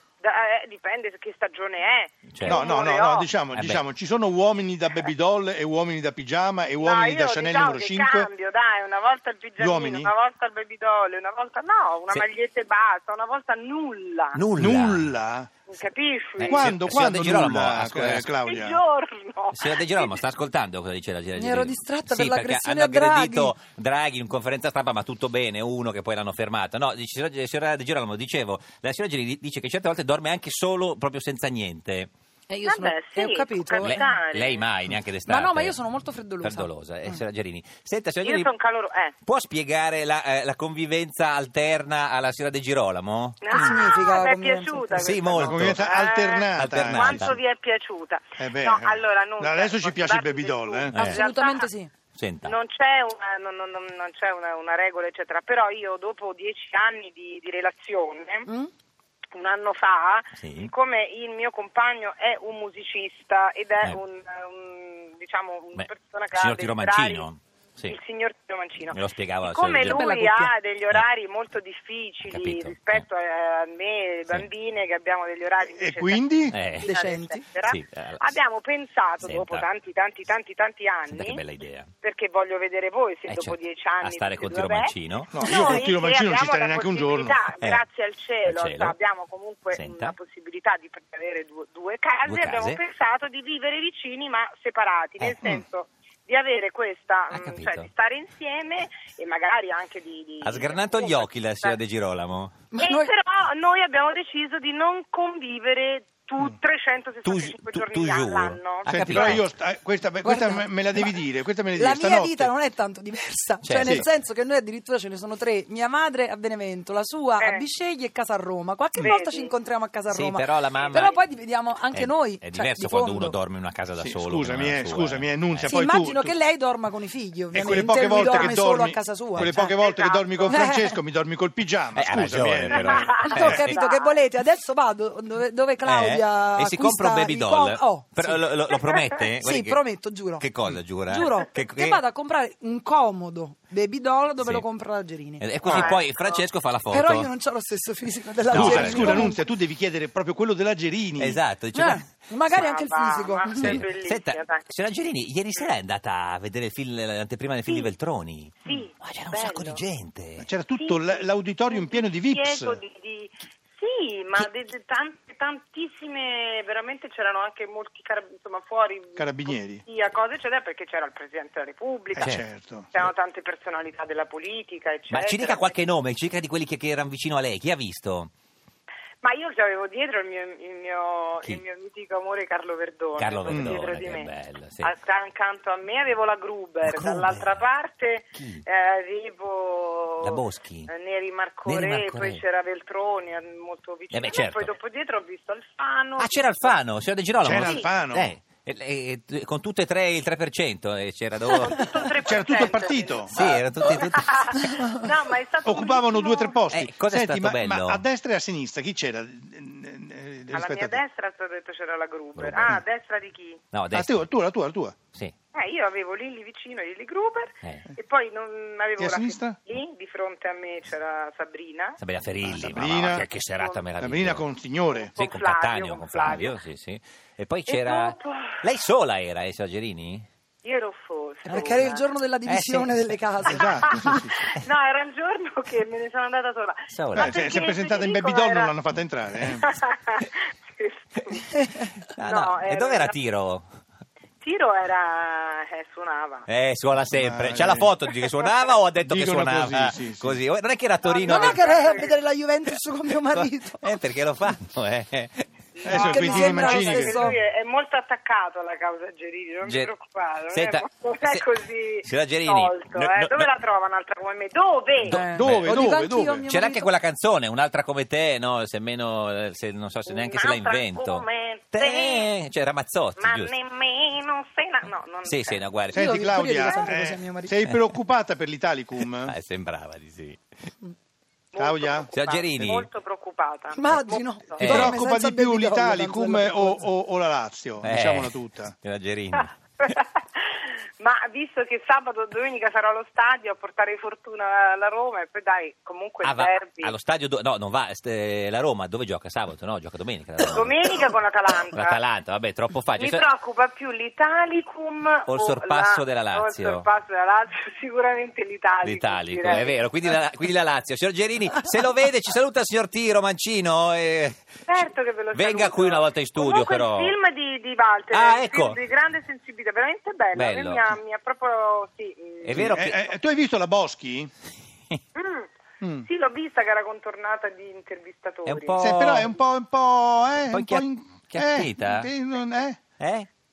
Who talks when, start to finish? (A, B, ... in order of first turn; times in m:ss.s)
0:00.2-0:03.3 A
0:02.3-0:02.6 B
0:02.4-0:08.3 C
0:03.6-0:03.8 B
0:06.8-0:14.4 A
0:09.6-0:10.1 C
0:14.3-0:15.1 B
0:14.6-0:15.5 C
0:15.7-0:16.7 A
0:16.4-0:18.3 B
0:16.5-0:18.8 C
0:18.4-0:20.2 A
0:19.5-0:32.1 B
0:21.4-0:23.5 D
0:32.5-0:34.0 D
0:32.6-0:34.6 A
0:33.8-0:35.8 B
0:35.3-0:37.2 D
0:36.4-0:38.5 B
0:38.2-0:39.2 A
0:39.2-0:43.7 B
0:43.4-0:51.7 A
0:43.5-0:45.3 D
0:45.0-0:45.8 B
0:45.4-0:47.4 C
0:46.6-0:47.4 B
0:48.4-0:51.0 C
0:50.9-0:51.9 D
0:52.1-0:52.6 B
0:52.4-0:58.5 A
0:59.3-1:07.3 A
1:00.4-1:00.7 B
1:05.8-1:08.0 B
1:07.9-1:21.4 A
1:08.9-1:10.0 B
1:09.8-1:10.5 D
1:12.2-1:13.1 B
1:15.6-1:16.6 C
1:16.5-1:16.9 B
1:16.8-1:17.4 D
1:17.6-1:18.2 B
1:19.2-1:19.7 B
1:21.1-1:21.9 B
1:22.0-1:41.8 A
1:23.3-1:25.6 B
1:25.3-1:27.4 C
1:28.4-1:29.0 B
1:29.7-1:30.2 B
1:32.3-1:32.8 B
1:35.2-1:35.5 B
1:37.3-1:37.9 B
1:40.4-1:42.6 B
1:42.7-1:43.1 D
1:42.8-1:49.4 A
1:47.2-1:49.5 B
1:48.9-1:52.5 C
1:50.2-1:51.1 D
1:51.8-2:03.3 D
1:53.6-1:54.0 B
1:57.4-1:57.7 A
1:59.0-1:59.6 A
2:00.1-2:01.2 B
2:00.7-2:01.2 A
2:01.9-2:05.8 B
2:04.0-2:06.4 C
2:05.7-2:09.7 D
2:07.5-2:13.4 C
2:08.0-2:08.6 A
2:09.5-2:10.6 A
2:10.5-2:10.9 D
2:12.0-2:13.8 B
2:12.8-2:14.2 A
2:13.2-2:18.4 D
2:15.8-2:22.0 B
2:19.4-2:20.4 D
2:21.1-2:25.9 D
2:24.4-2:24.7 B
2:25.4-2:27.3 B
2:25.7-2:25.9 C
2:25.7-2:26.4 A
2:26.9-2:29.4 D
2:28.5-2:29.3 B
2:28.5-2:31.4 C
2:31.2-2:32.1 B
2:31.7-2:33.8 D
2:32.5-2:34.6 A
2:33.6-2:40.5 B
2:37.7-2:37.9 A
2:38.6-2:39.8 A
2:40.4-2:42.8 C
2:40.8-2:55.7 A
2:49.2-2:49.8 C
2:52.1-2:52.9 C
2:55.1-2:58.3 B
2:59.2-3:04.3 A
3:03.2-3:04.9 B
3:03.5-3:03.8 C
3:04.8-3:16.7 A
3:06.8-3:07.6 B
3:08.3-3:08.6 B
3:10.2-3:10.9 B
3:11.6-3:12.4 B
3:14.1-3:14.7 B
3:16.2-3:22.0 B
3:17.4-3:18.3 C
3:17.6-3:17.9 A
3:21.5-3:26.6 A
3:22.3-3:23.3 C
3:23.3-3:24.8 B
3:25.6-3:31.0 C
3:26.7-3:28.0 B
3:30.5-3:33.6 A
3:32.4-3:32.8 B
3:33.7-3:34.3 B
3:33.9-3:35.0 C
3:35.5-3:42.0 A
3:39.0-3:39.6 C
3:42.0-3:44.4 B
3:42.4-3:43.2 C
3:43.1-3:43.9 A
3:44.0-3:45.1 C
3:44.9-3:46.6 A
3:45.2-3:50.3 B
3:47.7-3:48.7 A
3:50.6-3:52.0 A
3:51.4-3:54.2 D
3:52.5-3:53.0 B
3:53.5-3:54.3 C
3:54.0-3:58.7 A
3:56.9-3:57.3 B
3:57.2-3:59.6 C
3:59.5-4:01.5 A
4:01.5-4:02.0 D
4:02.1-4:03.7 B
4:02.2-4:03.2 A
4:04.4-4:06.5 A
4:06.5-4:11.7 B
4:07.1-4:07.9 C
4:09.1-4:10.4 C
4:11.0-4:12.2 A
4:11.3-4:14.0 D
4:13.3-4:15.5 B
4:15.8-4:25.2 A
4:15.8-4:17.3 C
4:15.9-4:17.4 D
4:19.6-4:19.9 B
4:20.5-4:21.5 B
4:22.0-4:23.5 B
4:25.0-4:25.9 B
4:25.1-4:26.9 D
4:25.3-4:26.4 C
4:26.5-4:33.5 B
4:30.1-4:32.3 A
4:33.2-4:35.6 A
4:35.3-4:36.1 B
4:35.9-4:39.4 C
4:35.9-4:37.6 D
4:39.2-4:40.4 B
4:41.5-4:44.6 A
4:41.6-4:42.1 C
4:42.1-4:42.9 B
4:43.7-4:46.9 D
4:44.6-4:45.0 B
4:44.6-4:48.8 C
4:47.8-4:49.5 B
4:49.4-4:56.9 A
4:56.2-5:01.0 B
5:00.4-5:02.0 A
5:01.7-5:03.3 B
5:03.0-5:09.8 A
5:05.3-5:06.9 B
5:08.8-5:14.8 B
5:14.7-5:22.8 A
5:15.3-5:17.2 B
5:18.1-5:18.8 B
5:20.3-5:21.0 B
5:22.4-5:23.0 B
5:22.5-5:24.3 C
5:25.2-5:25.5 A
5:25.8-5:26.1 C
5:26.0-5:28.8 A
5:28.4-5:29.4 B
5:28.8-5:32.8 C
5:30.4-5:32.1 B
5:33.0-5:33.3 B